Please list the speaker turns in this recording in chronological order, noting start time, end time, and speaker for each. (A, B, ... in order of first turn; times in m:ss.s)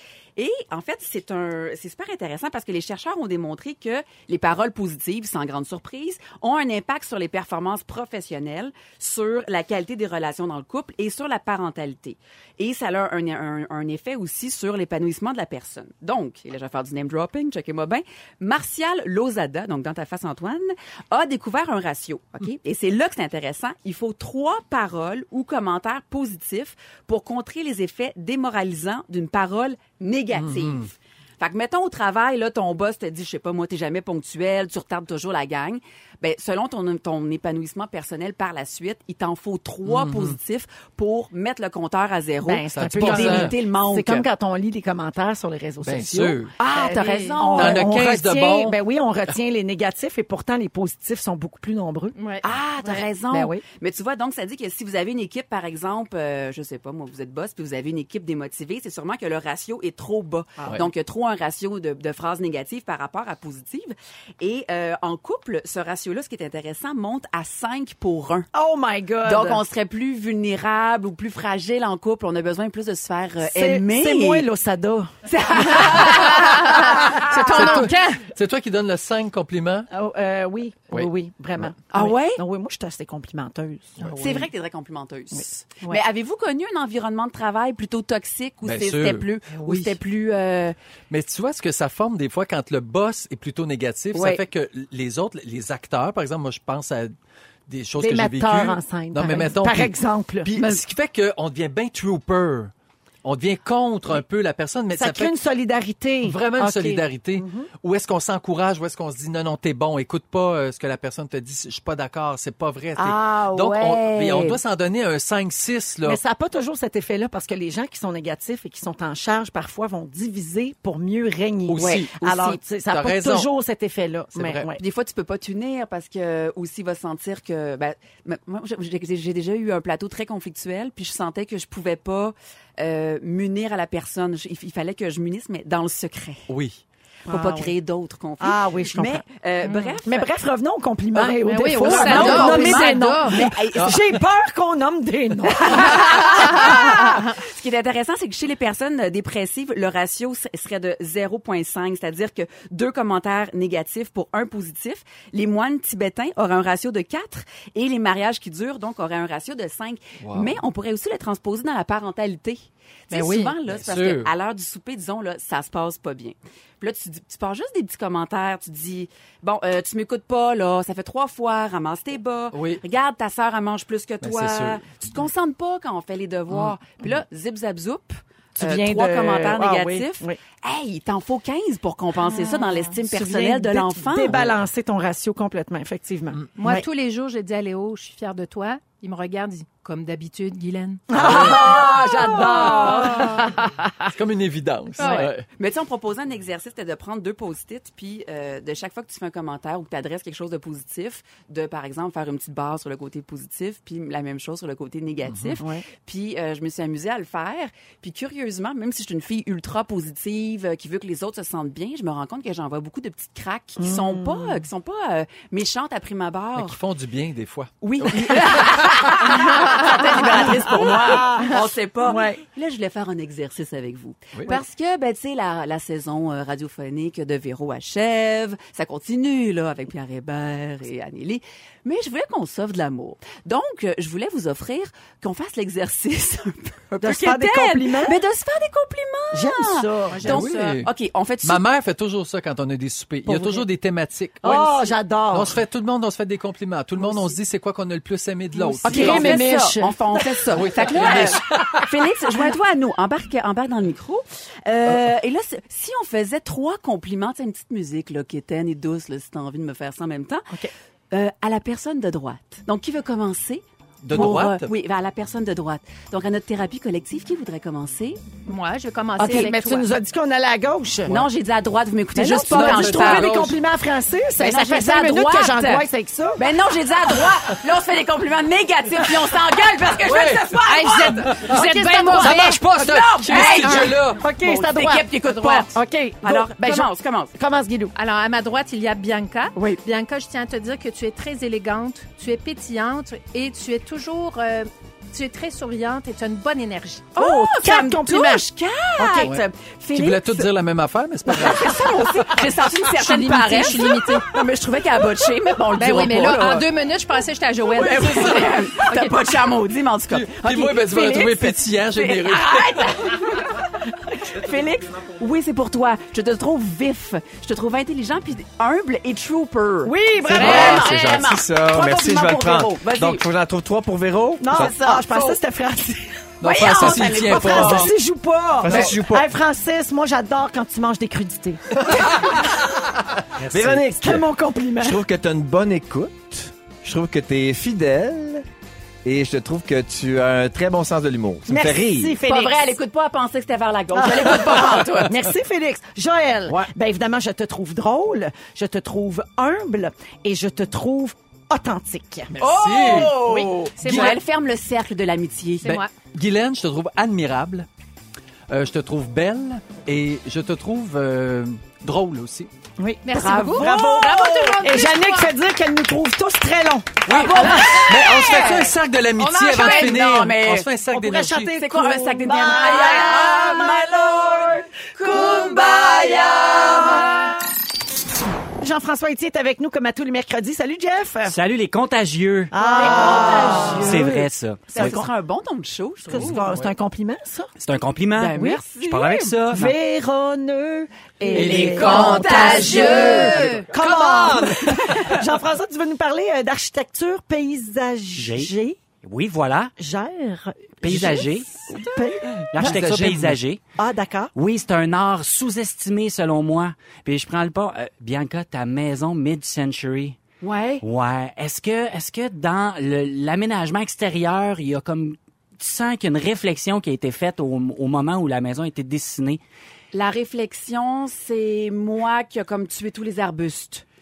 0:00.4-0:44.3 A
0:30.3-0:30.9 B
0:39.8-0:40.4 B
0:42.4-0:52.2 C
0:42.7-0:43.6 B
0:45.8-0:46.5 B
0:46.6-0:47.9 A
0:46.6-0:47.7 D
0:47.6-0:48.8 B
0:52.2-0:53.0 D
0:52.4-1:08.5 A
0:53.3-0:53.6 C
1:08.5-1:09.6 C
1:09.2-1:14.5 A
1:13.4-1:15.1 C
1:15.2-1:17.9 A
1:15.8-1:18.3 D
1:17.4-1:19.9 B
1:19.9-1:24.5 C
1:21.9-1:22.4 A
1:24.2-1:30.8 A
1:25.3-1:26.0 C
1:28.6-1:29.7 B
1:31.1-1:37.1 B
1:34.1-1:34.4 A
1:37.7-1:42.7 B
1:38.0-1:40.5 C
1:40.6-1:40.8 A
1:43.2-1:45.3 B
1:44.9-1:47.7 C
1:46.2-1:56.2 B
1:53.0-1:54.6 A
1:56.0-2:04.8 C
2:01.7-2:02.3 B
2:01.8-2:02.6 A
2:02.9-2:03.5 B
2:04.3-2:04.7 B
2:04.8-2:16.4 A
2:16.5-2:16.8 B
2:17.3-2:17.7 C
2:17.3-2:20.3 A
2:18.4-2:19.2 C
2:19.6-2:20.0 D
2:20.0-2:26.8 C
2:21.4-2:23.4 D
2:21.6-2:24.0 A
2:23.8-2:24.1 B
2:25.6-3:04.5 A
2:40.2-2:40.6 B
2:43.1-2:43.5 D
2:43.6-2:44.3 B
2:52.5-2:52.8 B
2:54.2-2:54.9 B
2:58.6-3:00.4 C
3:02.9-3:06.8 C
3:06.6-3:11.0 D
3:11.1-3:14.1 C
3:11.1-3:13.5 B
3:14.1-3:15.4 B
3:15.0-3:15.3 D
3:15.0-3:36.8 A
3:25.3-3:25.6 B
3:25.6-3:25.8 C
3:33.8-3:34.6 C
3:36.5-3:39.2 B
3:37.8-4:01.6 A
3:40.1-3:42.4 C
3:44.3-3:44.6 B
3:57.0-3:58.2 C
3:59.3-4:00.3 C
4:00.1-4:00.8 D
4:00.2-4:00.9 B
4:01.4-4:09.5 B
4:03.2-4:03.6 C
4:04.4-4:05.6 C
4:08.7-4:20.5 A
4:08.8-4:11.4 C
4:10.5-4:11.9 B
4:21.1-4:28.2 A
4:24.0-4:24.7 B
4:28.5-4:29.9 D
4:29.2-4:31.2 C
4:31.1-4:33.4 A
4:32.1-4:36.4 C
4:32.4-4:33.6 B
4:34.4-4:47.3 A
4:40.0-4:44.2 B
4:40.6-4:42.6 D
4:43.4-4:44.0 D
4:44.0-4:47.9 C
4:47.9-4:57.1 D
4:57.2-5:00.5 A
4:57.2-4:58.4 C
4:59.0-4:59.3 C
4:59.2-5:02.3 B
5:01.2-5:06.6 A
5:02.8-5:04.3 D
5:05.7-5:09.2 D
5:07.8-5:08.4 B
5:07.8-5:23.2 A
5:10.1-5:13.1 B
5:19.8-5:21.1 C
5:20.2-5:24.8 E
5:20.6-5:21.1 D
5:21.7-5:22.6 C
5:24.4-5:32.5 C
5:24.5-5:25.2 A
5:26.4-5:27.9 A
5:26.4-5:27.9 B
5:28.6-5:29.2 E
5:33.4-5:33.9 F
5:33.5-5:38.4 E
5:33.8-5:35.0 C
5:39.0-5:42.2 E
5:41.5-5:42.8 C
5:42.2-5:45.2 A
5:43.9-5:52.4 C
5:52.4-5:54.1 B
5:52.4-5:55.8 A
5:53.8-5:54.2 D
5:55.6-5:55.9 D
5:55.6-5:57.7 B
5:58.5-6:02.5 B
6:02.8-6:07.9 C
6:03.0-6:05.3 D
6:03.1-6:04.0 A
6:07.1-6:10.7 A
6:07.1-6:11.6 B
6:09.6-6:10.0 D
6:10.9-6:15.9 C
6:11.5-6:17.3 A
6:16.6-6:17.1 C
6:18.6-6:21.4 C
6:21.3-6:22.5 F
6:22.5-6:25.1 C
6:22.5-6:24.1 A
6:23.6-6:25.0 F
6:24.7-6:26.6 A
6:26.1-6:27.5 C
6:27.6-6:29.7 F
6:28.2-6:29.3 A
6:29.5-6:38.8 C
6:31.2-6:33.6 A
6:31.3-6:32.6 F
6:31.4-6:31.8 B
6:32.0-6:33.7 D
6:33.2-6:34.7 E
6:34.6-6:35.1 A
6:38.2-6:39.7 F
6:39.8-6:43.0 C
6:40.8-6:41.8 F
6:42.4-6:43.4 B
6:42.5-6:43.6 F
6:43.8-6:44.3 C
6:44.3-6:50.2 F
6:50.4-6:50.8 A
6:50.8-6:59.4 F
6:59.9-7:03.8 A